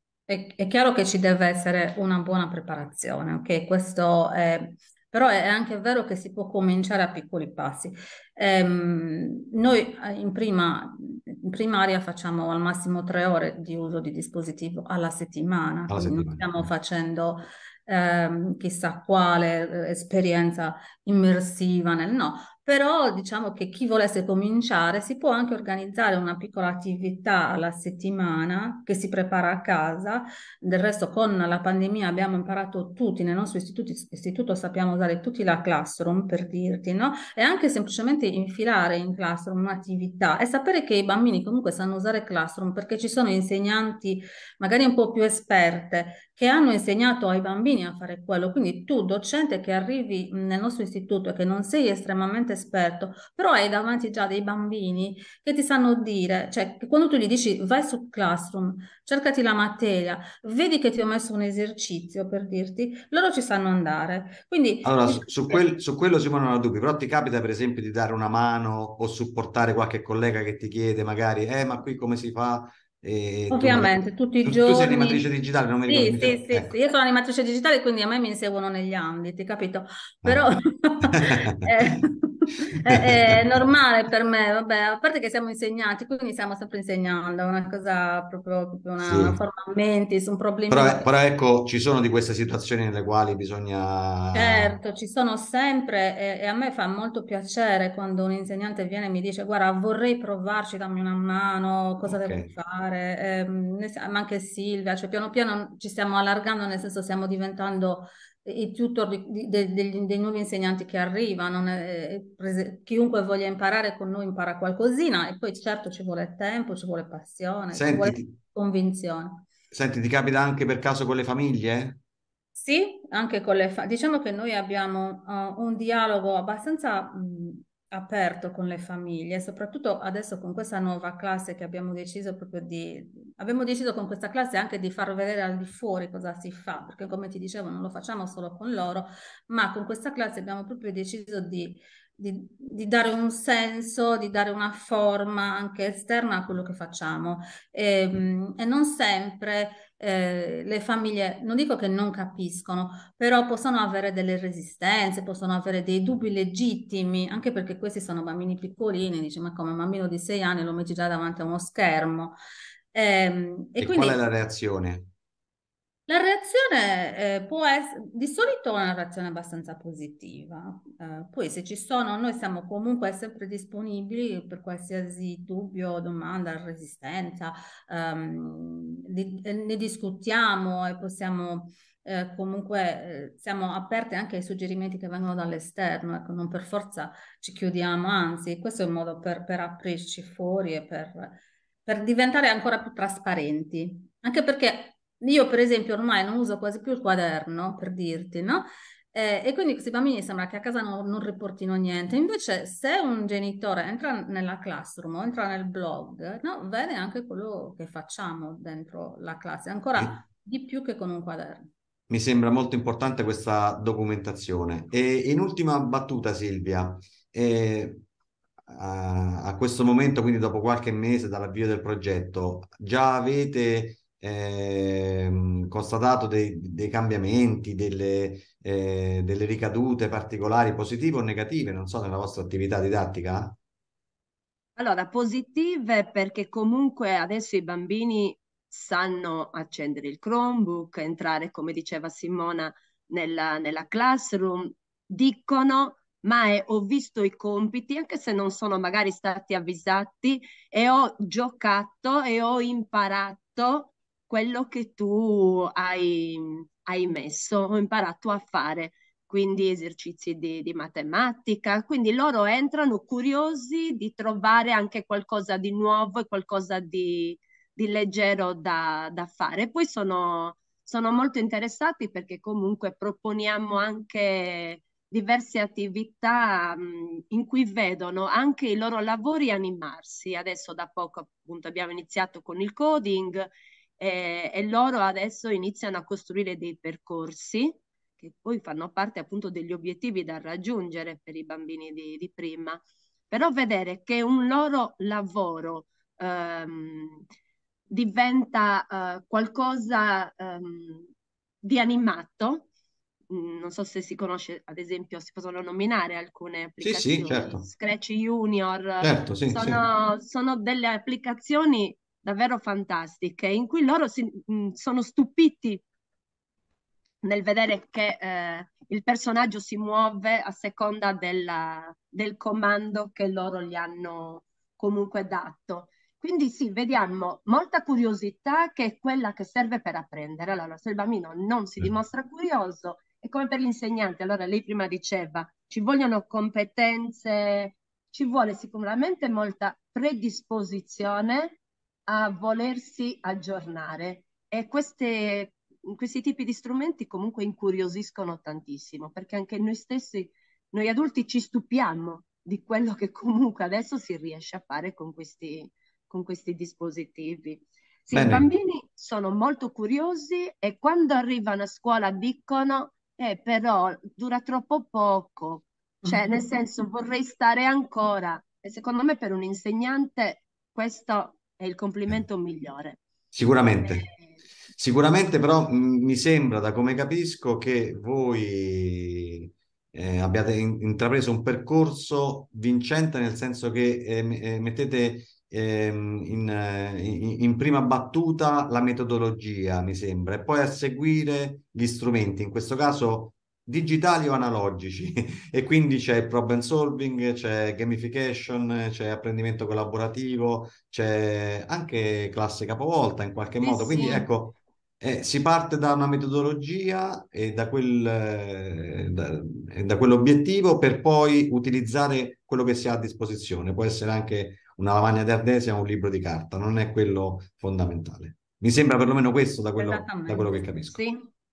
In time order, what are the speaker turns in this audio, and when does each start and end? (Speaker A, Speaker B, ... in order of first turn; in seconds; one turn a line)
Speaker A: 0.3-65.6
Speaker B: 15.9-16.7
Speaker B: 64.8-76.7
Speaker A: 73.5-75.3
Speaker A: 75.9-91.1
Speaker B: 81.0-81.6
Speaker B: 83.0-83.6
Speaker B: 89.0-89.4
Speaker B: 90.7-94.8
Speaker A: 94.3-119.5
Speaker B: 102.1-102.5
Speaker B: 117.7-118.3
Speaker B: 119.7-122.0
Speaker A: 122.6-162.3
Speaker A: 162.9-164.2
Speaker B: 163.8-165.1
Speaker A: 166.1-211.7
Speaker B: 212.1-218.0
Speaker B: 218.7-233.6
Speaker C: 234.8-297.2
Speaker C: 297.9-301.1
Speaker C: 301.6-302.7
Speaker C: 303.3-315.8
Speaker B: 306.8-307.6
Speaker B: 309.0-309.8
Speaker C: 317.2-373.0
Speaker B: 358.1-358.5
Speaker B: 373.3-374.1
Speaker C: 373.8-374.3
Speaker B: 374.8-421.0
Speaker C: 403.6-404.3
Speaker A: 419.8-420.6
Speaker C: 420.9-421.3